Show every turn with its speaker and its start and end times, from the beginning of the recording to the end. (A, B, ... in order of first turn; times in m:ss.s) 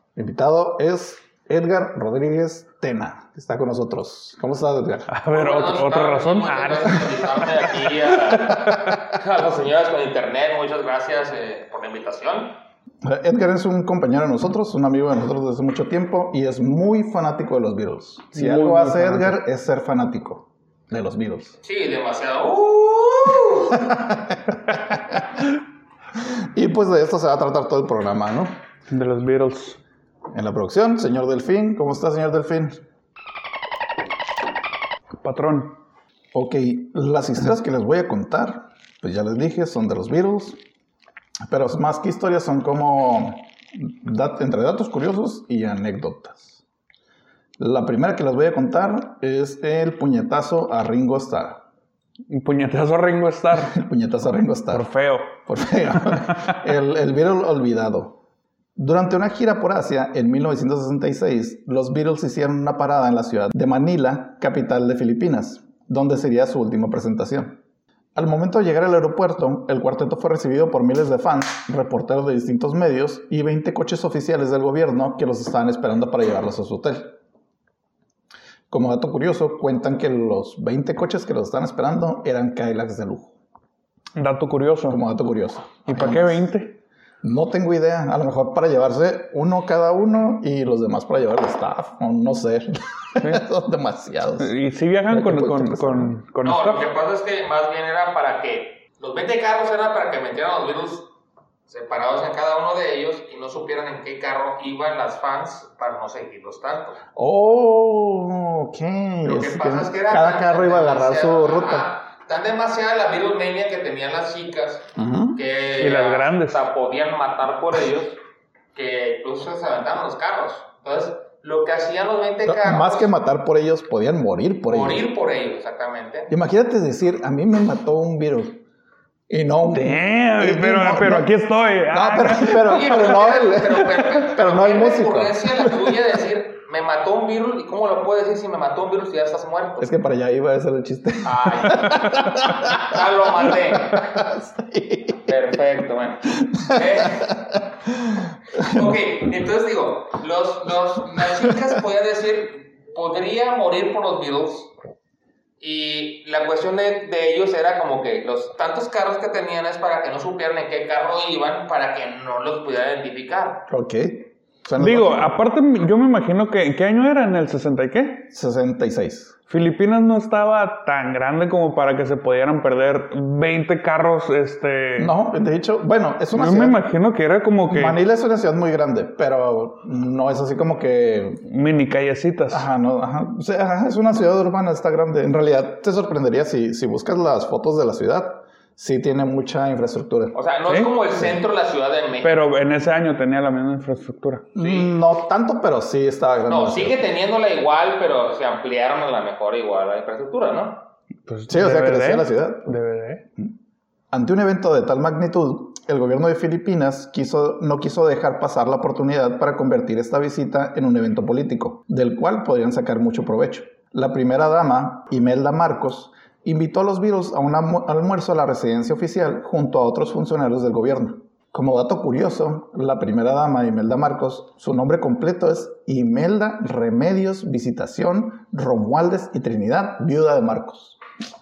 0:00.2-0:05.1 A
0:05.1-0:09.0 B
0:05.3-0:12.6 C
0:13.0-0:21.6 A
0:18.3-0:19.4 B
0:21.6-0:23.9 C
0:23.7-0:25.5 A
0:26.5-0:28.5 A
0:28.9-0:29.8 B
0:30.3-0:32.8 A
0:35.2-0:35.8 B
0:36.3-0:40.6 A
0:41.5-0:46.6 A
0:47.6-0:51.6 A
0:52.3-0:53.8 B
0:53.6-0:54.9 A
0:54.7-0:55.3 B
0:55.4-0:58.2 A
0:55.9-0:56.6 B
0:58.8-1:07.6 A
1:08.1-1:17.2 A
1:18.7-1:23.3 A
1:24.1-1:25.0 B
1:24.9-1:26.4 A
1:25.8-1:26.8 B
1:27.2-1:34.5 A
1:34.4-1:36.8 B
1:35.1-1:36.1 A
1:36.4-1:41.1 C
1:41.7-1:47.0 C
1:47.2-1:51.9 A
1:49.2-1:58.2 C
1:55.0-1:55.4 A
1:55.8-1:56.6 B
1:58.7-2:03.1 C
2:02.4-2:05.1 A
2:04.7-2:06.3 C
2:06.3-2:08.6 A
2:09.3-2:11.3 A
2:09.7-2:13.0 B
2:11.9-2:15.7 A
2:12.6-2:19.9 C
2:19.8-2:25.3 A
2:21.2-2:24.1 C
2:25.2-2:27.4 C
2:26.4-2:29.0 A
2:28.6-2:34.7 C
2:31.2-2:31.6 A
2:35.6-2:43.6 C
2:43.7-2:45.3 A
2:44.8-2:48.3 B
2:48.3-2:49.3 A
2:49.5-2:55.1 B
2:55.0-2:56.8 A
2:56.3-2:58.0 B
2:57.7-3:01.4 A
3:01.4-3:02.6 B
3:02.5-3:10.3 A
3:10.3-3:12.3 C
3:10.6-3:10.9 B
3:12.2-3:14.5 B
3:14.5-3:17.0 A
3:14.6-3:14.9 C
3:16.5-3:20.8 C
3:21.2-3:23.2 B
3:21.5-3:22.8 A
3:24.1-3:51.0 A